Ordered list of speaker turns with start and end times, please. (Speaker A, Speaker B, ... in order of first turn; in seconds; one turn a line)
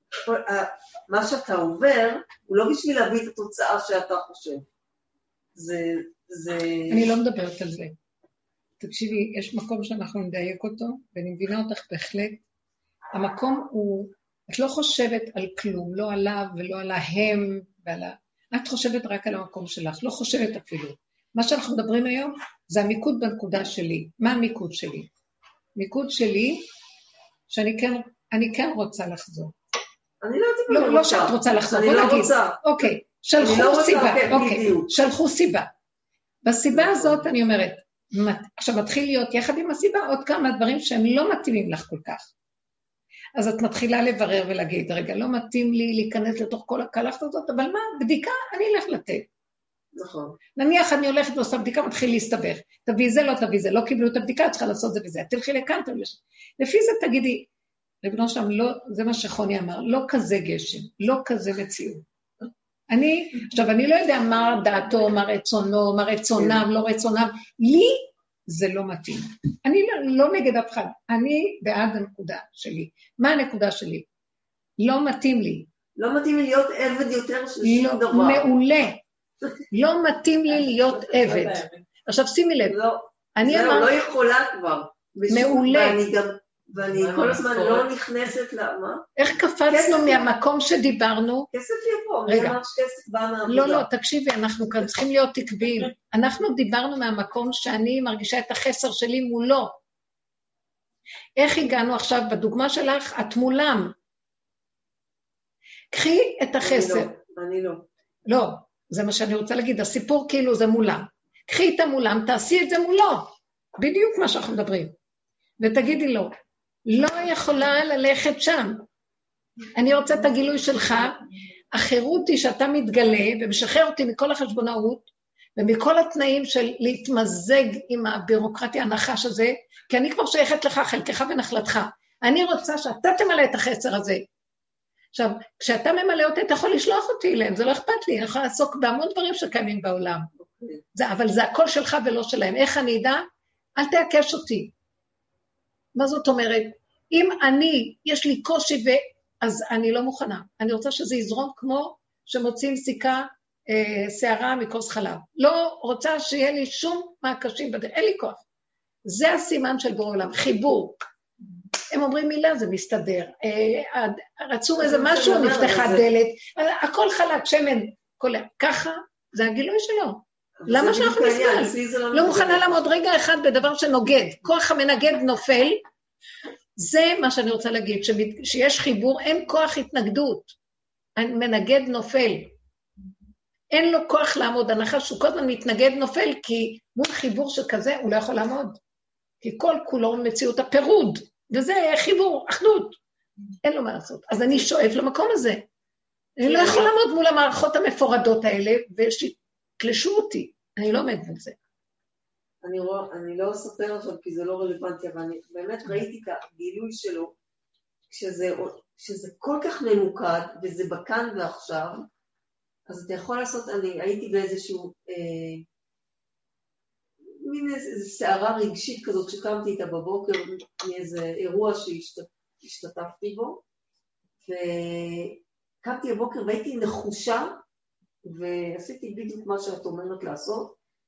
Speaker A: 0.2-4.7
Speaker A: 5.5-7.1
Speaker B: 6.9-8.0
Speaker B: 8.8-12.4
Speaker B: 13.1-25.1
Speaker B: 25.8-26.7
Speaker B: 27.5-29.5
Speaker A: 30.2-32.6
Speaker B: 30.7-35.7
Speaker A: 33.4-34.9
Speaker B: 36.5-42.3
Speaker A: 36.8-37.1
Speaker B: 43.4-49.3
Speaker A: 50.0-50.4
Speaker B: 50.5-57.5
Speaker B: 58.0-62.0
Speaker B: 62.9-74.0
Speaker B: 74.8-75.7
Speaker A: 76.0-78.5
Speaker B: 77.6-79.0
Speaker B: 79.7-82.8
Speaker A: 81.0-81.7
Speaker A: 82.7-89.1
Speaker B: 83.4-84.0
Speaker B: 85.3-86.0
Speaker B: 89.2-91.5
Speaker A: 89.7-90.3
Speaker A: 91.5-93.9
Speaker B: 92.3-92.6
Speaker B: 93.5-99.8
Speaker B: 101.4-103.9
Speaker B: 105.9-107.1
Speaker A: 106.6-107.9
Speaker B: 108.3-115.0
Speaker B: 115.6-116.3
Speaker B: 116.9-118.8
Speaker B: 119.8-134.3
Speaker B: 135.1-140.3
Speaker A: 140.4-140.8
Speaker B: 140.9-144.7
Speaker B: 145.9-158.4
Speaker B: 159.1-161.1
Speaker B: 161.9-175.8
Speaker A: 164.8-166.0
Speaker A: 170.6-172.8
Speaker B: 176.8-180.5
Speaker B: 181.2-182.5
Speaker B: 183.7-188.8
Speaker B: 189.4-193.0
Speaker B: 193.6-195.6
Speaker B: 196.4-201.6
Speaker A: 196.4-196.9
Speaker A: 202.6-207.3
Speaker A: 208.1-212.1
Speaker A: 212.9-215.6
Speaker A: 217.2-223.6
Speaker A: 224.4-227.6
Speaker A: 228.2-230.7